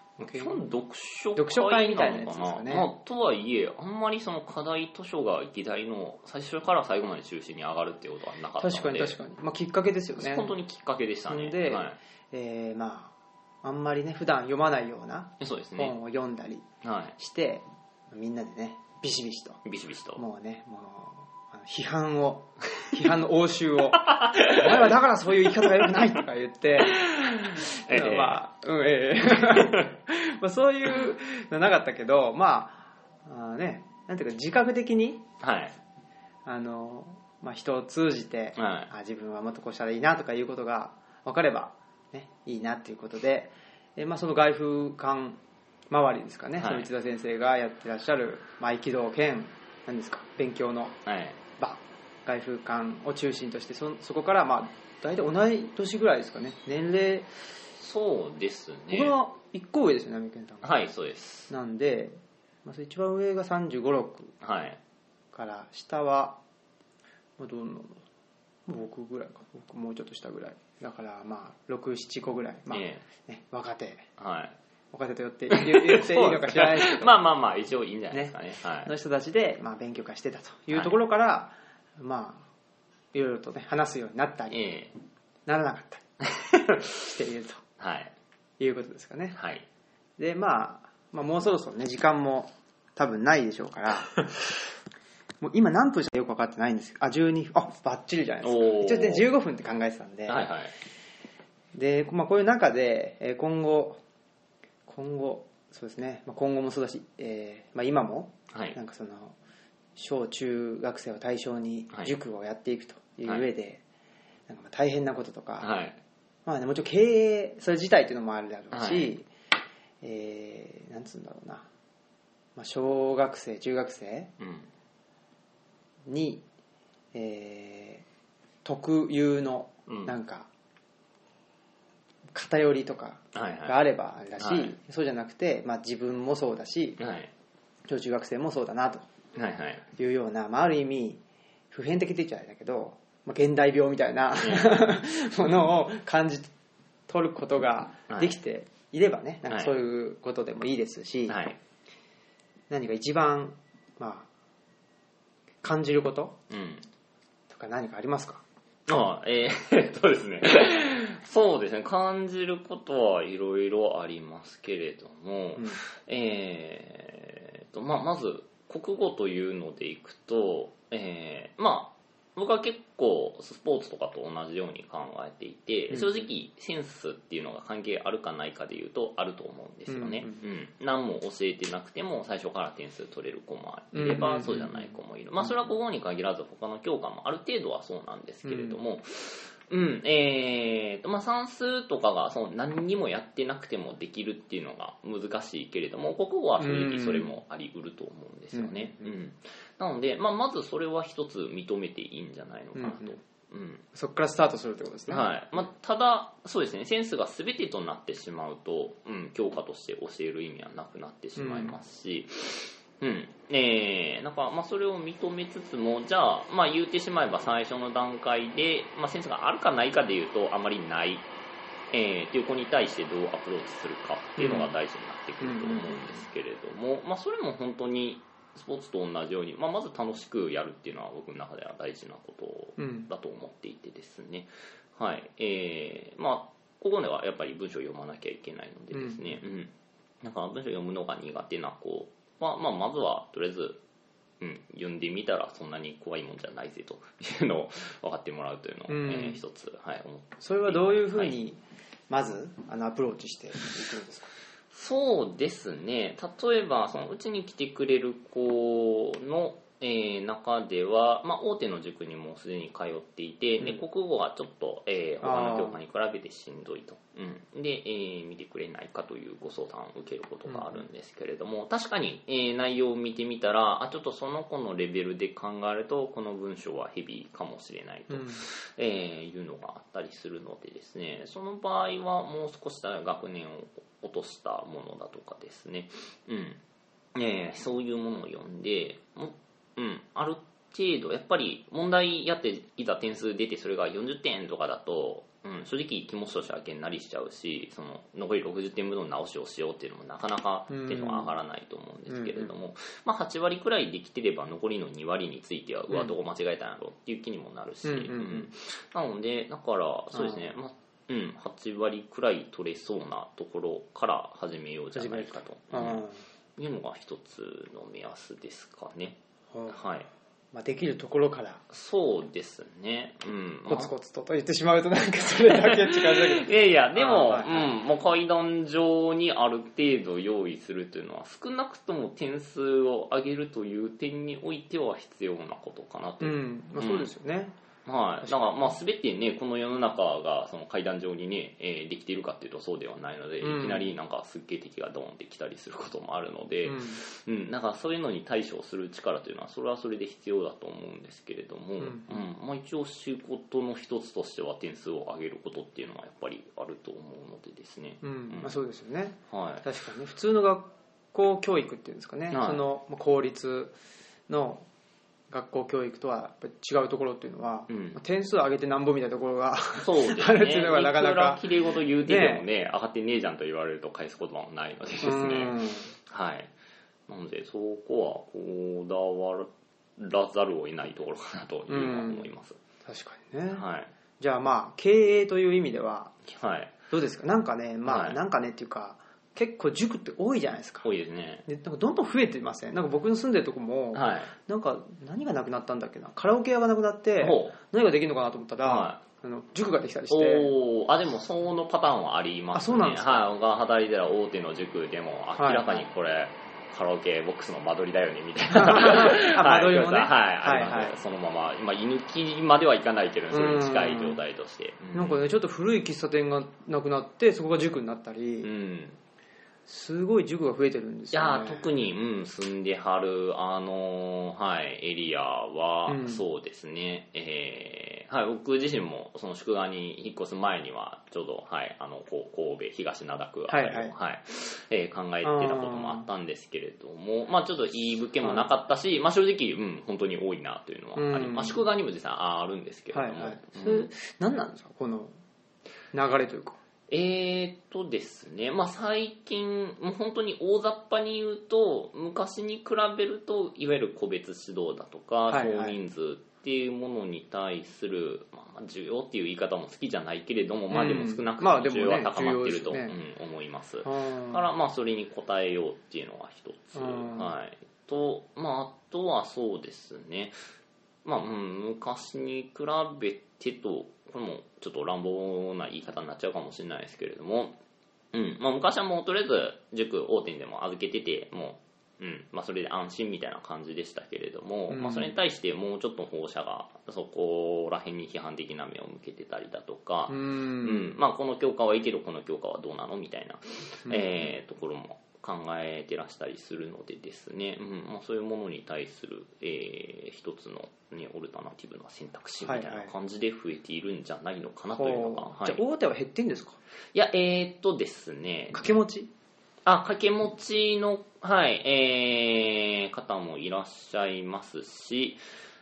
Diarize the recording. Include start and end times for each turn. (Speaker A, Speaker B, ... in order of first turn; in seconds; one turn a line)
Speaker A: 0.2-0.6
Speaker B: 0.2-9.2
Speaker A: 1.4-2.9
Speaker A: 8.6-10.5
Speaker B: 10.2-12.0
Speaker A: 11.3-16.6
Speaker B: 15.4-16.0
Speaker B: 16.8-17.1
Speaker A: 17.2-19.6
Speaker B: 19.6-20.2
Speaker A: 20.2-35.2
Speaker B: 24.2-24.9
Speaker B: 25.8-26.0
Speaker B: 26.9-28.4
Speaker B: 29.4-29.9
Speaker B: 35.4-35.8
Speaker A: 36.5-51.0
Speaker B: 38.6-38.9
Speaker B: 46.6-46.9
Speaker B: 51.0-51.4
Speaker A: 51.6-57.3
Speaker B: 57.8-59.2
Speaker A: 58.9-60.8
Speaker B: 60.6-61.5
Speaker A: 61.5-64.3
Speaker B: 64.4-64.8
Speaker A: 65.3-66.4
Speaker A: 67.4-68.0
Speaker A: 68.7-74.1
Speaker B: 72.7-73.0
Speaker B: 74.2-74.6
Speaker A: 74.9-77.1
Speaker B: 75.5-78.9
Speaker A: 78.1-82.5
Speaker A: 83.1-84.6
Speaker B: 84.5-84.9
Speaker A: 85.5-86.0
Speaker B: 86.3-86.9
Speaker A: 87.0-87.6
Speaker B: 87.8-88.1
Speaker A: 88.6-89.4
Speaker B: 89.3-89.7
Speaker A: 90.2-94.2
Speaker A: 95.4-100.5
Speaker B: 98.4-99.3
Speaker B: 100.3-100.8
Speaker A: 101.7-104.0
Speaker A: 104.9-109.4
Speaker B: 108.5-108.8
Speaker A: 110.0-113.8
Speaker A: 114.5-115.7
Speaker B: 115.6-116.0
Speaker A: 116.5-119.3
Speaker B: 118.7-119.1
Speaker A: 120.0-121.7
Speaker A: 122.6-124.3
Speaker B: 124.4-124.7
Speaker A: 126.1-126.4
Speaker A: 127.1-128.1
Speaker A: 128.7-130.5
Speaker B: 129.9-130.2
Speaker A: 132.3-137.0
Speaker B: 133.3-133.8
Speaker B: 134.4-134.7
Speaker B: 137.0-137.3
Speaker A: 137.9-139.1
Speaker B: 139.3-139.8
Speaker A: 140.0-146.5
Speaker B: 144.4-144.9
Speaker A: 147.1-151.4
Speaker B: 148.1-148.4
Speaker B: 149.5-149.8
Speaker B: 151.3-151.6
Speaker A: 152.7-154.3
Speaker A: 155.6-156.4
Speaker B: 156.5-156.8
Speaker A: 157.5-158.4
Speaker B: 158.9-203.8
Speaker A: 175.9-176.3
Speaker A: 179.9-180.4
Speaker A: 183.9-185.7
Speaker A: 188.4-188.8
Speaker A: 196.6-197.3
Speaker A: 198.5-199.2
Speaker A: 202.8-203.2
Speaker A: 203.9-205.6
Speaker B: 205.1-221.3
Speaker A: 211.4-211.8
Speaker B: 221.9-243.8
Speaker A: 224.4-224.7
Speaker A: 225.4-226.3
Speaker A: 232.8-233.1
Speaker A: 238.9-239.4
Speaker B: 244.4-251.4
Speaker A: 248.9-249.4
Speaker A: 250.4-254.3
Speaker B: 254.7-286.6
Speaker A: 263.6-263.8
Speaker A: 265.2-265.8
Speaker A: 270.5-270.8
Speaker A: 278.1-278.4
Speaker B: 287.1-316.1
Speaker A: 300.7-301.4
Speaker A: 302.1-302.5
Speaker A: 307.9-308.5
Speaker A: 310.1-310.5
Speaker A: 314.9-316.2
Speaker B: 316.6-319.2
Speaker A: 319.5-319.8
Speaker B: 319.7-320.1
Speaker A: 320.5-321.6
Speaker B: 321.7-323.9
Speaker A: 323.7-327.7
Speaker B: 325.5-337.1
Speaker A: 336.2-337.6
Speaker B: 337.9-358.6
Speaker A: 338.2-338.7
Speaker A: 343.4-343.9
Speaker A: 346.6-347.0
Speaker A: 351.8-352.3
Speaker A: 358.0-363.8
Speaker B: 359.3-359.6
Speaker B: 362.3-362.6
Speaker A: 364.3-364.7
Speaker A: 365.3-372.5
Speaker B: 367.7-368.0
Speaker B: 369.8-376.5
Speaker A: 375.0-375.9
Speaker B: 377.1-382.6
Speaker A: 381.7-382.3
Speaker A: 382.9-383.6
Speaker B: 383.5-383.9
Speaker A: 384.2-386.1
Speaker B: 386.3-386.7
Speaker A: 386.9-390.9
Speaker B: 387.9-388.2
Speaker B: 390.8-391.5
Speaker A: 391.5-400.5
Speaker B: 393.9-394.3
Speaker B: 397.2-397.6
Speaker B: 398.6-399.0
Speaker B: 400.1-415.2
Speaker A: 402.5-403.2
Speaker A: 405.4-405.8
Speaker A: 408.5-410.9
Speaker A: 413.3-414.2
Speaker A: 414.9-418.5
Speaker B: 418.4-419.0
Speaker A: 419.7-421.8
Speaker B: 421.1-443.9
Speaker A: 425.9-426.2
Speaker A: 433.5-433.9
Speaker A: 435.2-436.1
Speaker A: 438.2-438.5
Speaker A: 440.9-441.7
Speaker A: 442.9-445.2
Speaker A: 445.9-446.6
Speaker B: 446.9-470.4
Speaker A: 455.3-455.8
Speaker A: 460.7-463.0
Speaker A: 463.8-464.4
Speaker A: 466.7-467.3
Speaker B: 471.1-477.6
Speaker B: 478.1-505.6
Speaker A: 484.7-485.1
Speaker A: 490.1-491.0
Speaker A: 493.9-494.3
Speaker A: 502.4-502.9
Speaker A: 504.7-506.6
Speaker B: 506.9-508.6
Speaker A: 508.5-509.1
Speaker B: 509.7-515.2